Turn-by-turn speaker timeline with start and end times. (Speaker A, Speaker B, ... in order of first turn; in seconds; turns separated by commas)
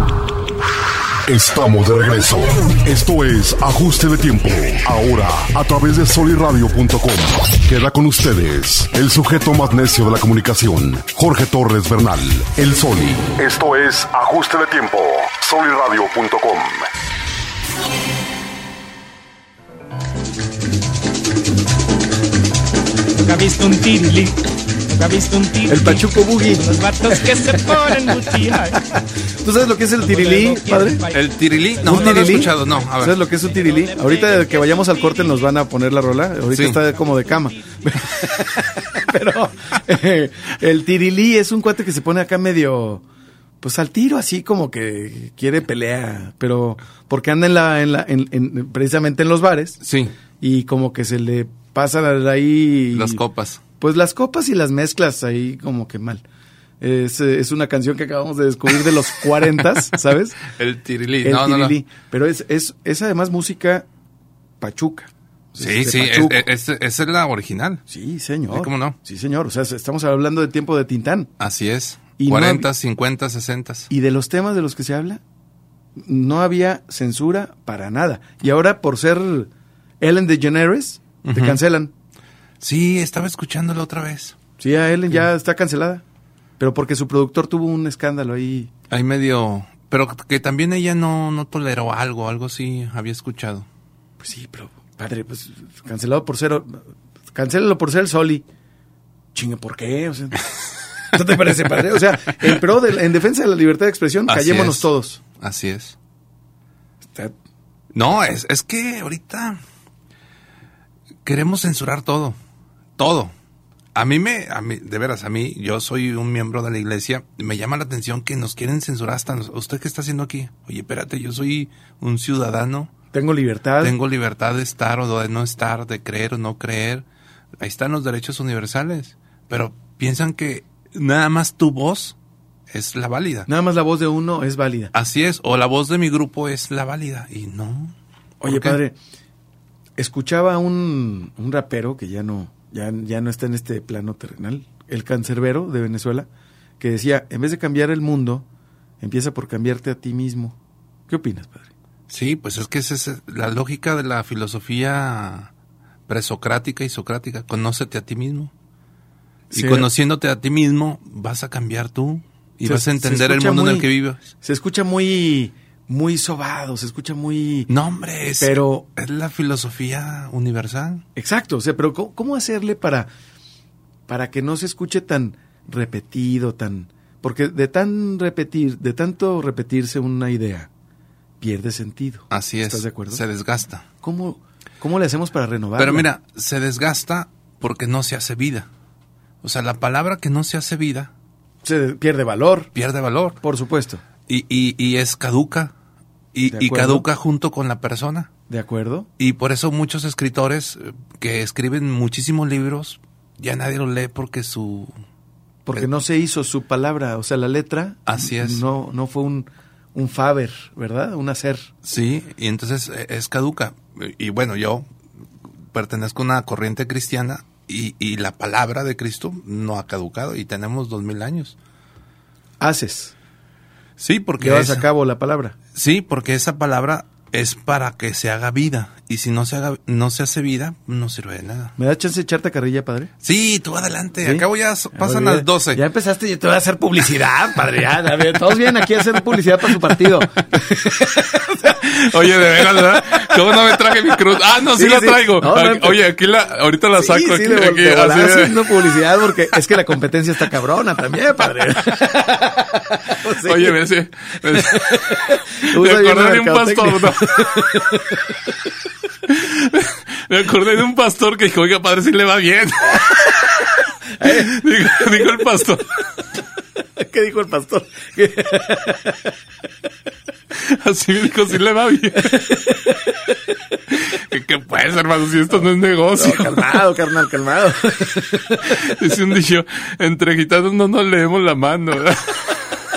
Speaker A: 1.2-16.9, Speaker B: 23.1-28.8, Speaker C: 25.7-31.0, Speaker B: 30.0-31.3, Speaker D: 31.1-33.2, Speaker B: 31.8-32.6, Speaker C: 31.9-43.0, Speaker B: 33.4-35.5, Speaker D: 36.5-36.8, Speaker B: 37.1-37.8, Speaker C: 43.6-49.8, Speaker D: 49.8-50.1, Speaker C: 50.4-53.2, Speaker D: 53.0-53.6, Speaker C: 53.8-56.2, Speaker C: 56.8-60.4, Speaker D: 60.5-61.8, Speaker C: 61.2-63.9, Speaker C: 64.6-66.4, Speaker D: 65.6-67.8, Speaker C: 67.9-71.3, Speaker D: 68.5-69.0, Speaker D: 71.4-73.9, Speaker C: 72.2-72.7, Speaker C: 73.9-75.2, Speaker C: 76.0-79.5, Speaker C: 80.0-81.9, Speaker D: 81.2-81.6, Speaker D: 82.6-84.4, Speaker C: 84.6-86.0, Speaker C: 86.6-88.7, Speaker D: 88.9-93.7, Speaker C: 94.2-98.5, Speaker C: 99.3-100.5, Speaker C: 101.1-105.2, Speaker D: 104.3-106.0, Speaker C: 107.1-107.3, Speaker D: 107.9-109.6, Speaker D: 111.2-112.4, Speaker D: 113.0-113.3, Speaker D: 114.0-122.9, Speaker C: 123.1-124.0, Speaker D: 123.8-127.0, Speaker D: 127.6-132.2, Speaker D: 132.7-133.5, Speaker C: 133.5-134.9, Speaker D: 134.9-138.8, Speaker C: 138.4-139.0, Speaker C: 140.0-146.3, Speaker C: 146.8-148.5, Speaker C: 149.0-150.6, Speaker C: 151.1-151.7, Speaker D: 152.1-155.5, Speaker D: 156.1-158.5, Speaker D: 159.5-164.2, Speaker C: 159.5-159.9, Speaker C: 162.6-163.9, Speaker C: 164.4-167.7, Speaker D: 167.7-171.1, Speaker C: 168.4-168.9, Speaker C: 171.2-173.1, Speaker C: 174.1-180.7, Speaker C: 181.4-183.2, Speaker D: 182.3-183.9, Speaker C: 184.0-186.1, Speaker D: 185.8-188.7, Speaker D: 189.4-191.1, Speaker C: 191.6-192.7, Speaker D: 192.8-193.4, Speaker C: 193.4-194.0, Speaker D: 194.3-195.7, Speaker D: 196.3-198.3, Speaker C: 196.5-197.1, Speaker C: 198.5-199.1, Speaker D: 199.2-204.9, Speaker C: 205.7-211.7, Speaker D: 208.1-208.6, Speaker D: 211.8-214.9, Speaker D: 215.7-221.6, Speaker C: 222.6-223.1, Speaker D: 224.0-224.9, Speaker C: 224.4-225.6, Speaker D: 225.7-231.7, Speaker C: 231.8-233.1, Speaker D: 233.2-235.8, Speaker C: 234.2-244.2, Speaker D: 239.1-240.1, Speaker D: 241.7-249.0, Speaker C: 244.8-246.0, Speaker C: 247.0-253.8, Speaker D: 253.4-257.8, Speaker C: 254.5-258.3, Speaker D: 259.3-263.6, Speaker C: 264.2-264.5, Speaker D: 264.2-266.0, Speaker C: 267.0-269.2, Speaker D: 270.5-272.6, Speaker D: 273.9-276.8, Speaker C: 276.2-278.8, Speaker D: 278.6-282.6